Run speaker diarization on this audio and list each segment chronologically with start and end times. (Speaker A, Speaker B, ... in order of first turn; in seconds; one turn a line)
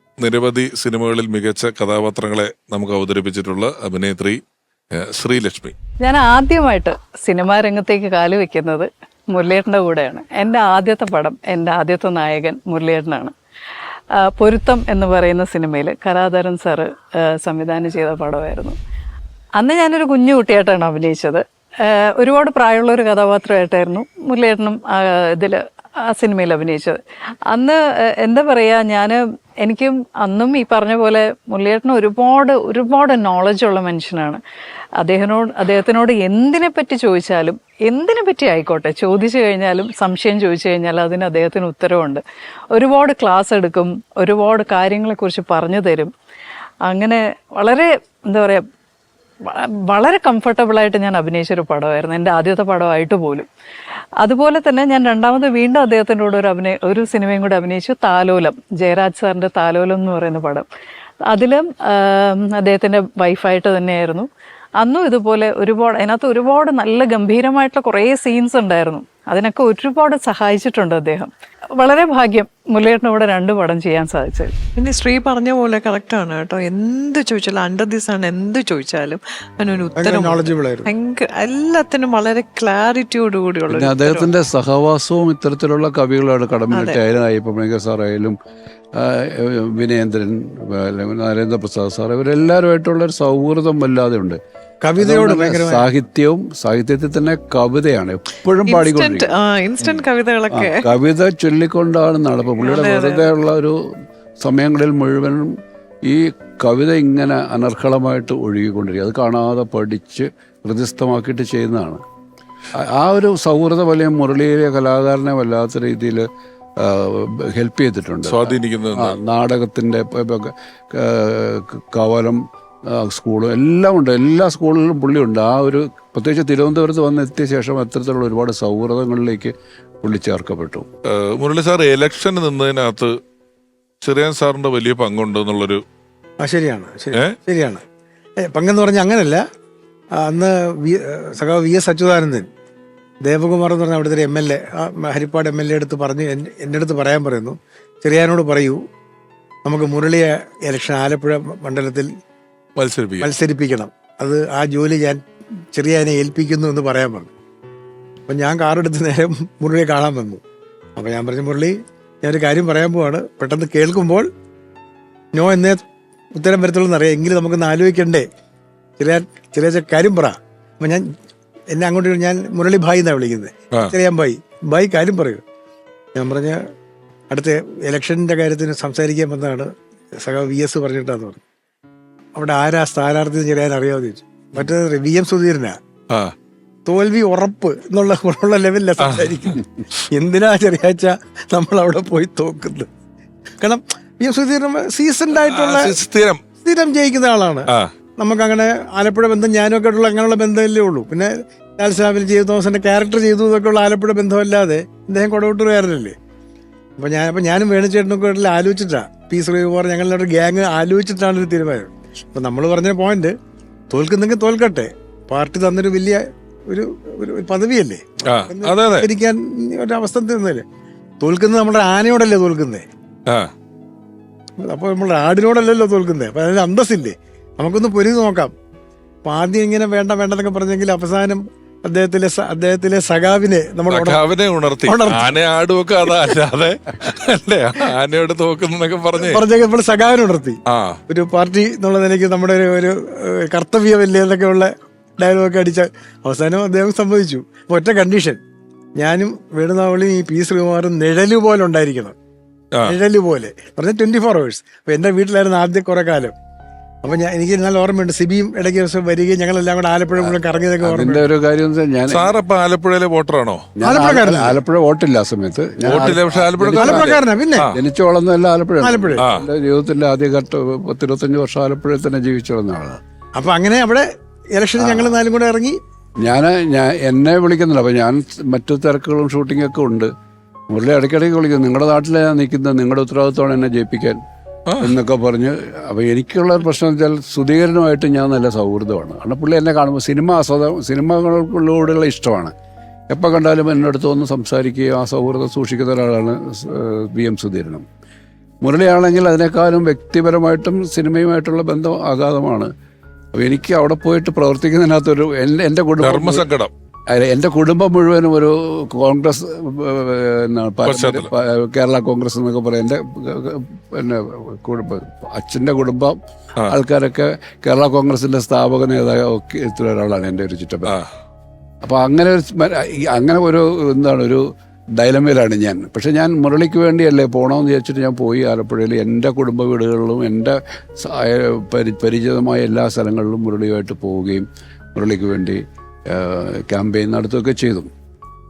Speaker A: 0.2-4.4
Speaker A: 4.9-5.7
Speaker B: 6.0-13.3
Speaker B: 14.4-18.7
Speaker B: 19.6-21.4
Speaker B: 22.1-25.6
Speaker B: 26.1-27.0
Speaker B: 27.5-34.4
Speaker B: 35.0-42.2
Speaker B: 42.7-46.1
Speaker B: 46.9-48.6
Speaker B: 49.9-53.5
Speaker B: 54.2-60.6
Speaker B: 61.3-64.2
Speaker B: 64.8-74.5
Speaker C: 74.8-84.3
Speaker D: 80.0-80.9
Speaker E: 83.7-88.3
Speaker C: 86.7-87.0
Speaker E: 89.0-94.4
Speaker D: 94.8-95.9
Speaker E: 95.0-99.3
Speaker C: 98.7-100.9
Speaker E: 100.5-103.7
Speaker C: 102.6-103.3
Speaker E: 104.4-105.5
Speaker E: 106.0-112.0
Speaker E: 112.7-116.2
Speaker E: 116.8-122.4
Speaker A: 118.2-119.2
Speaker E: 122.9-130.9
Speaker A: 131.1-133.1
Speaker A: 134.0-135.8
Speaker D: 136.4-137.8
Speaker D: 138.4-139.4
Speaker D: 140.1-142.4
Speaker D: 143.2-148.8
Speaker D: 149.6-152.1
Speaker A: 152.8-153.3
Speaker D: 153.2-155.2
Speaker D: 155.7-157.3
Speaker D: 158.3-160.4
Speaker D: 160.9-164.3
Speaker D: 165.3-165.8
Speaker D: 166.3-168.2
Speaker D: 169.0-171.0
Speaker D: 171.7-175.4
Speaker D: 176.1-176.6
Speaker D: 177.3-181.4
Speaker D: 182.3-185.8
Speaker D: 186.8-192.9
Speaker A: 189.0-189.5
Speaker D: 193.6-196.0
Speaker A: 195.3-196.4
Speaker D: 196.6-206.1
Speaker D: 207.0-213.3
Speaker D: 213.9-220.6
Speaker A: 218.3-219.1
Speaker D: 221.2-222.8
Speaker D: 224.6-228.5
Speaker D: 229.2-234.2
Speaker A: 233.9-239.4
Speaker D: 234.8-235.3
Speaker D: 239.2-248.4
Speaker A: 240.7-241.0
Speaker D: 249.0-252.1
Speaker D: 252.8-256.3
Speaker D: 257.0-261.3
Speaker E: 260.2-262.3
Speaker A: 262.1-263.6
Speaker E: 263.8-267.2
Speaker D: 263.8-264.6
Speaker A: 265.8-267.8
Speaker D: 266.8-267.7
Speaker E: 267.7-273.0
Speaker D: 268.8-269.2
Speaker A: 269.2-269.5
Speaker D: 273.3-275.8
Speaker E: 274.8-275.2
Speaker E: 276.2-280.1
Speaker E: 280.7-284.2
Speaker A: 284.7-284.9
Speaker E: 284.8-292.5
Speaker E: 293.1-297.9
Speaker E: 298.6-302.7
Speaker E: 303.3-306.5
Speaker A: 306.0-306.7
Speaker E: 307.1-321.0
Speaker A: 310.8-311.3
Speaker E: 321.8-324.4
Speaker E: 325.0-337.9